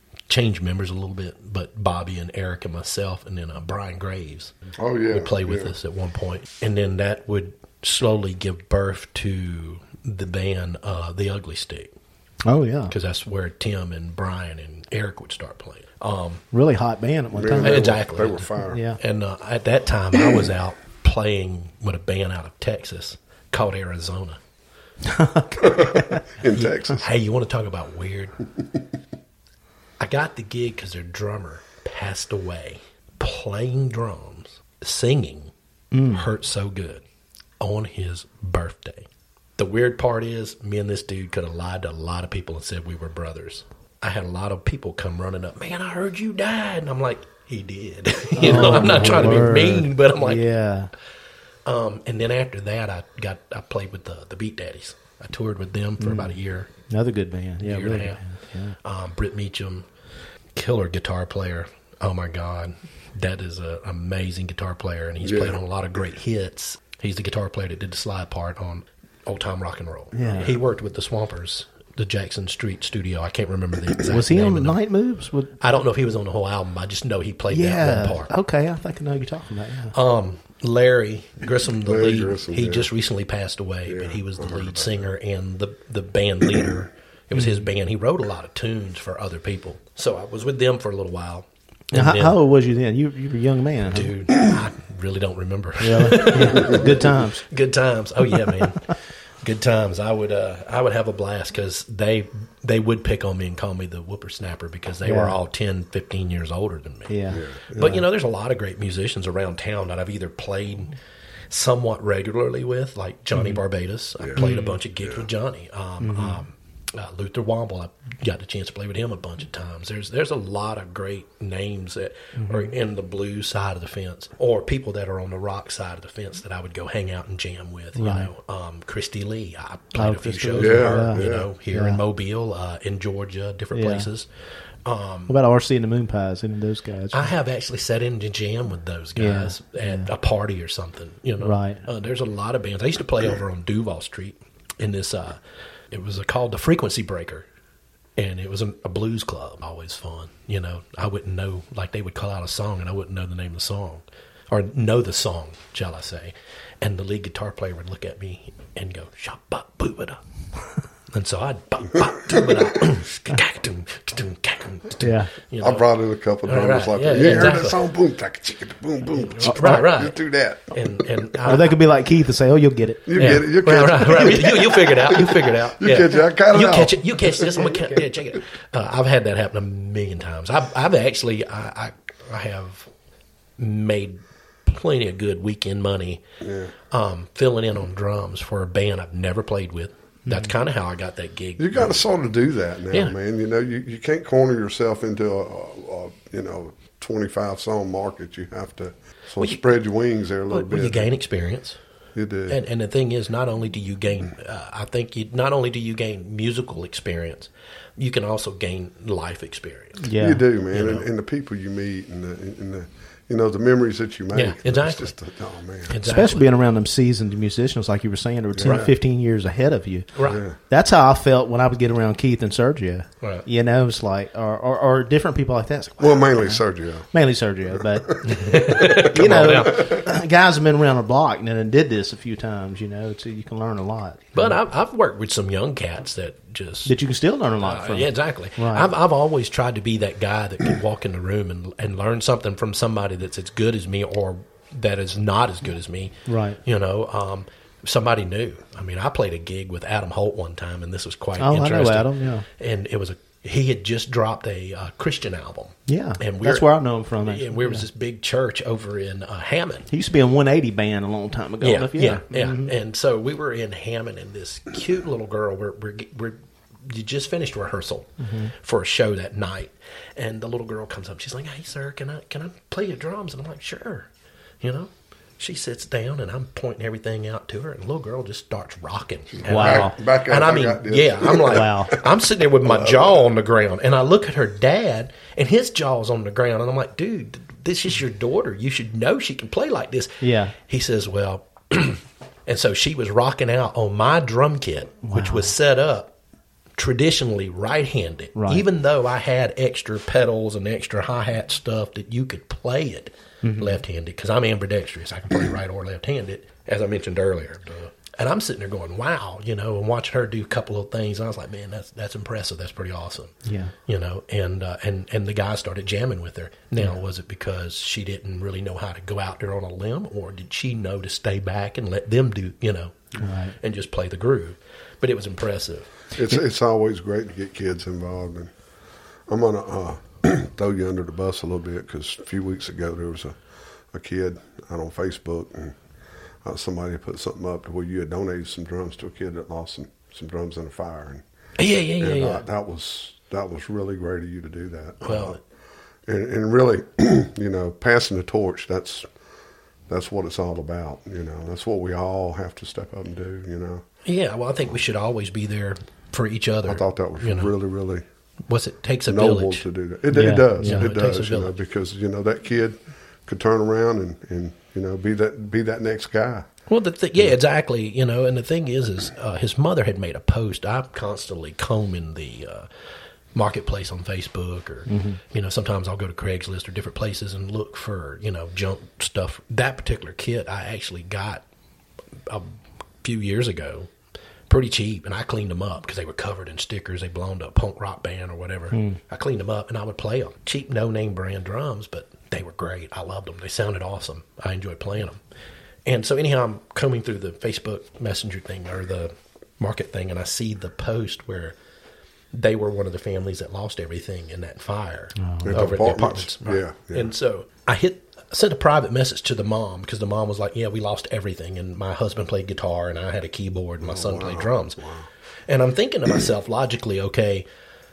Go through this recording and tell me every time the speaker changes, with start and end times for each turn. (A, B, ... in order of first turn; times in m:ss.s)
0:00.3-0:04.6 A
0:04.8-0:05.7 B
0:05.1-0:11.9 A
0:12.4-0:12.9 C
0:12.9-0:16.4 A
0:16.5-0:17.8 C
0:17.3-0:18.8 B
0:17.6-0:24.4 A
0:18.7-0:19.0 C
0:25.0-0:26.2 C
0:25.6-0:27.1 B
0:26.5-0:28.4 A
0:30.0-0:35.5 A
0:35.9-0:36.2 C
0:36.1-0:37.0 A
0:37.6-0:39.0 A
0:39.6-0:50.4 A
0:48.4-0:50.9 C
0:51.6-0:56.7 A
0:56.0-0:58.8 C
0:57.6-0:58.2 A
0:58.8-0:59.9 A
1:00.5-1:14.8 A
1:05.2-1:05.6 B
1:10.1-1:10.6 C
1:10.2-1:10.5 B
1:14.0-1:15.6 C
1:15.6-1:18.3 A
1:17.5-1:19.9 C
1:19.9-1:32.4 A
1:21.8-1:22.9 B
1:23.9-1:24.9 B
1:27.3-1:27.6 C
1:31.9-1:34.1 C
1:33.9-1:47.2 A
1:35.8-1:37.5 C
1:38.3-1:38.7 C
1:45.0-1:45.3 C
1:47.1-1:47.4 C
1:47.3-1:48.0 B
1:47.7-1:50.9 A
1:51.5-2:14.3 A
1:53.3-1:53.6 C
1:54.2-1:54.4 B
1:54.4-1:54.8 C
1:56.0-1:56.4 C
2:02.4-2:02.7 C
2:08.0-2:08.3 C
2:10.0-2:12.0 C
2:10.6-2:11.5 B
2:13.7-2:14.1 C
2:14.8-2:15.3 A
2:15.3-2:17.3 C
2:17.1-2:25.4 A
2:19.2-2:20.1 C
2:21.4-2:21.8 C
2:25.9-2:27.5 A
2:28.2-2:40.2 A
2:41.1-2:45.8 A
2:42.0-2:42.8 B
2:45.0-2:45.3 C
2:45.6-2:51.5 B
2:46.4-2:47.8 A
2:49.2-2:50.2 A
2:49.4-2:49.9 C
2:50.7-2:51.7 A
2:51.4-2:53.4 C
2:53.0-2:58.0 B
2:53.2-3:02.9 A
3:03.6-3:06.2 A
3:06.4-3:06.7 B
3:06.9-3:12.0 A
3:10.3-3:10.5 C
3:11.6-3:21.1 B
3:20.5-3:21.8 A
3:22.1-3:22.6 B
3:22.5-3:30.1 A
3:30.0-3:30.4 C
3:30.2-3:36.0 B
3:30.7-3:31.0 A
3:34.3-3:35.1 A
3:35.9-3:36.4 A
3:36.0-3:54.6 C
3:38.5-3:38.9 B
3:40.1-3:40.4 A
3:40.2-3:40.6 B
3:46.0-3:47.1 B
3:47.7-3:48.6 B
3:48.2-3:50.0 A
3:54.3-3:56.9 A
3:56.8-3:58.9 C
3:57.6-4:06.1 A
4:06.3-4:06.6 C
4:06.6-4:16.7 A
4:11.4-4:12.4 C
4:15.9-4:17.8 C
4:17.2-4:19.9 A
4:19.9-4:22.7 C
4:21.6-4:34.1 A
4:28.2-4:28.5 C
4:34.6-4:56.1 A
4:39.3-4:42.0 B
4:39.4-4:40.0 C
4:41.5-4:42.0 C
4:42.6-4:43.2 B
4:50.2-4:50.5 C
4:55.1-4:55.5 C
4:56.8-5:25.9 A
4:58.4-4:58.6 C
5:03.4-5:03.8 C
5:13.4-5:13.7 C
5:23.2-5:23.6 C
5:26.1-5:28.5 B
5:29.3-5:33.4 B
5:33.9-5:35.8 B
5:36.4-5:41.2 B
5:41.6-5:42.4 A
5:42.0-5:45.4 B
5:45.0-5:45.4 A
5:46.0-5:49.1 B
5:49.9-5:53.8 B
5:54.0-5:57.5 A
5:56.7-5:58.0 B
5:58.5-5:59.6 A
5:59.1-6:06.5 B
6:00.1-6:00.9 C
6:00.6-6:01.5 A
6:06.7-6:12.7 A
6:13.3-6:21.4 A
6:14.9-6:15.2 C
6:22.3-6:23.9 A
6:24.5-6:35.2 A
6:28.7-6:29.0 C
6:35.8-6:41.6 A
6:42.3-6:54.8 A
6:45.2-6:45.5 C
6:45.4-6:47.1 B
6:53.8-6:55.1 B
6:55.5-6:57.4 A